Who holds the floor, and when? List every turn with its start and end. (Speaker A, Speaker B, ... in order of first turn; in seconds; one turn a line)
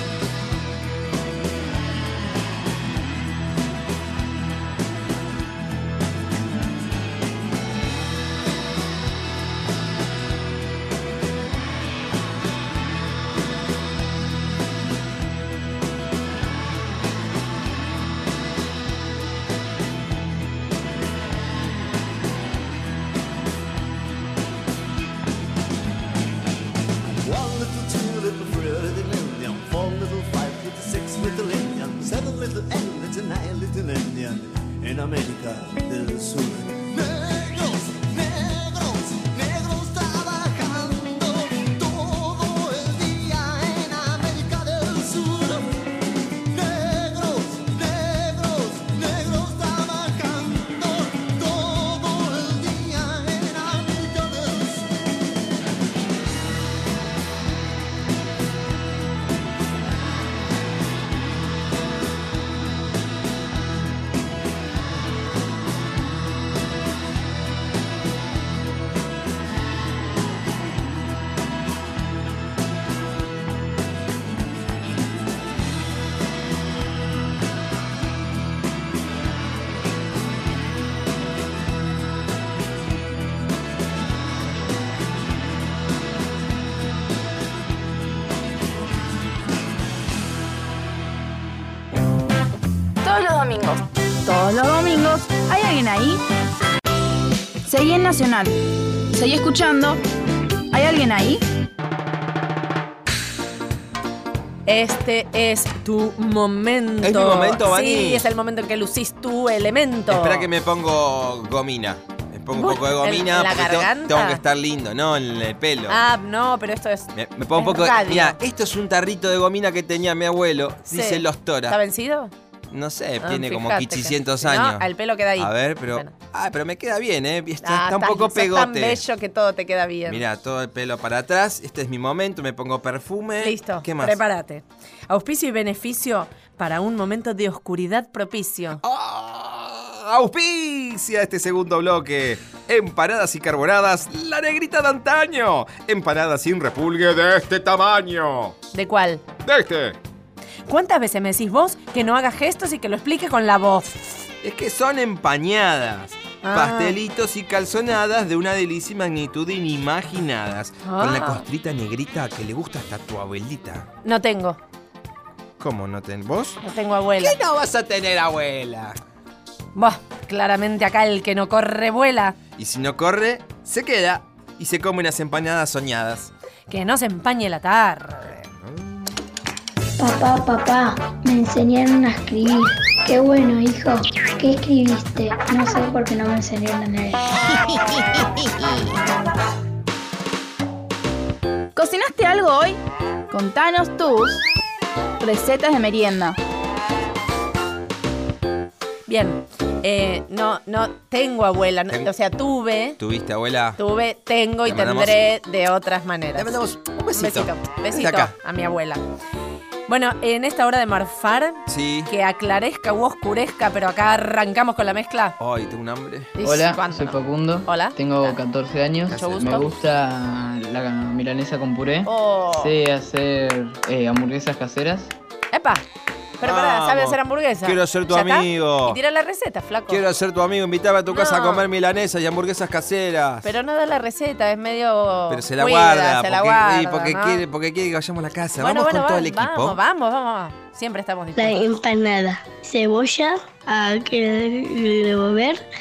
Speaker A: 27.2-45.7
Speaker A: 46.5-54.9
Speaker B: 93.0-96.2
Speaker B: 97.7-98.6
Speaker B: 99.1-100.0
Speaker B: 100.7-101.4
Speaker C: 104.7-110.5
Speaker D: 107.0-108.2
Speaker D: 110.1-116.0
Speaker C: 112.5-114.4
Speaker C: 115.9-118.4
Speaker D: 117.1-121.8
Speaker C: 120.9-122.3
Speaker D: 122.7-129.0
Speaker C: 123.2-126.1
Speaker C: 127.6-130.2
Speaker D: 130.1-134.2
Speaker C: 133.4-138.8
Speaker D: 138.8-148.6
Speaker C: 148.7-149.2
Speaker D: 149.4-150.0
Speaker C: 150.7-154.2
Speaker D: 154.4-163.9
Speaker C: 156.4-156.9
Speaker C: 160.8-161.4
Speaker C: 164.1-164.6
Speaker D: 165.6-166.6
Speaker C: 166.6-167.4
Speaker D: 167.2-169.0
Speaker C: 169.8-172.4
Speaker D: 172.6-176.3
Speaker C: 176.7-178.5
Speaker D: 178.6-178.9
Speaker E: 180.0-187.2
Speaker B: 191.8-192.8
Speaker B: 193.3-194.4
Speaker B: 195.2-196.4
Speaker C: 199.1-203.0
Speaker D: 203.0-203.8
Speaker C: 203.8-206.6
Speaker D: 204.7-205.3
Speaker D: 206.4-208.3
Speaker C: 207.1-209.0
Speaker C: 209.9-215.3
Speaker D: 211.7-212.1
Speaker D: 215.4-216.3
Speaker C: 216.4-218.4
Speaker F: 216.4-225.1
Speaker D: 219.0-219.8
Speaker C: 219.1-219.7
Speaker C: 222.1-222.8
Speaker C: 225.5-225.8
Speaker C: 226.4-230.0
Speaker D: 226.4-229.0
Speaker D: 229.9-233.5
Speaker C: 231.1-231.7
Speaker C: 233.4-237.4
Speaker D: 235.3-239.8
Speaker C: 238.6-241.6
Speaker G: 241.4-245.7